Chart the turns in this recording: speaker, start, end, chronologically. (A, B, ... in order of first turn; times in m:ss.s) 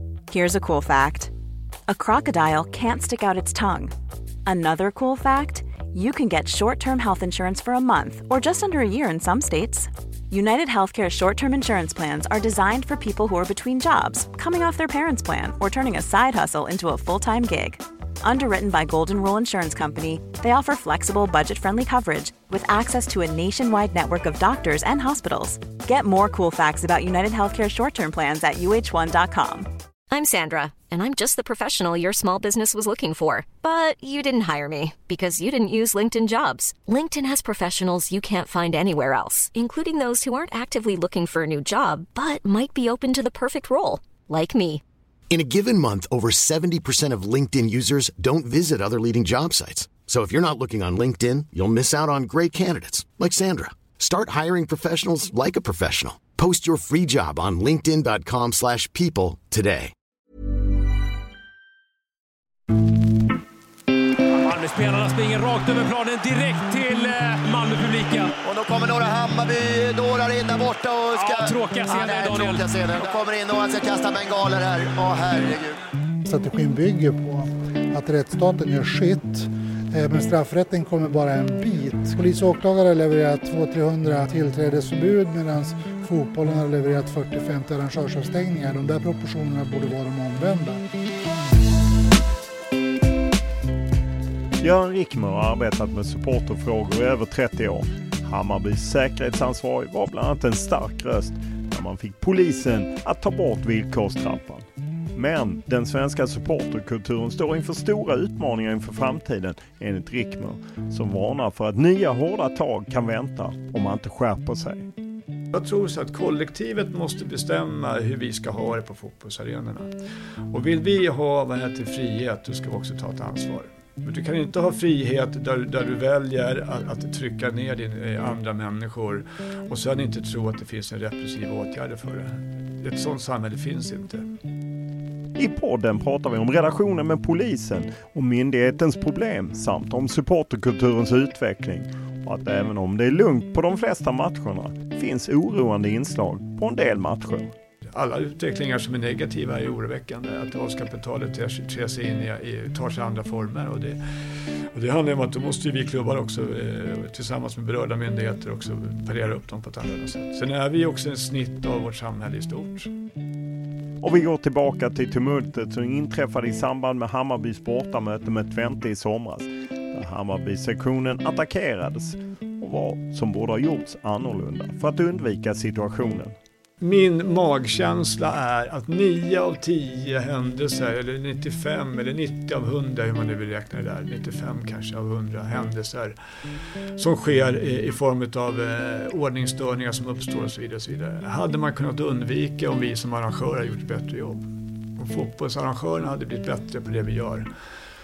0:00.3-0:01.3 A
0:01.9-0:03.9 A
0:04.4-0:29.7 A
0:30.1-0:44.8 B
0:45.3-0:59.9 C
1:04.3-1:08.4 D
1:08.4-1:15.8 E
1:11.2-1:12.7 D
1:16.2-1:30.8 F
1:34.6-1:54.9 G
1:55.5-1:59.9 H
2:00.5-2:14.3 H
2:15.4-2:27.5 G
2:27.9-2:42.9 H
2:44.0-2:56.4 G
2:56.8-3:06.2 H
3:07.0-3:17.5 H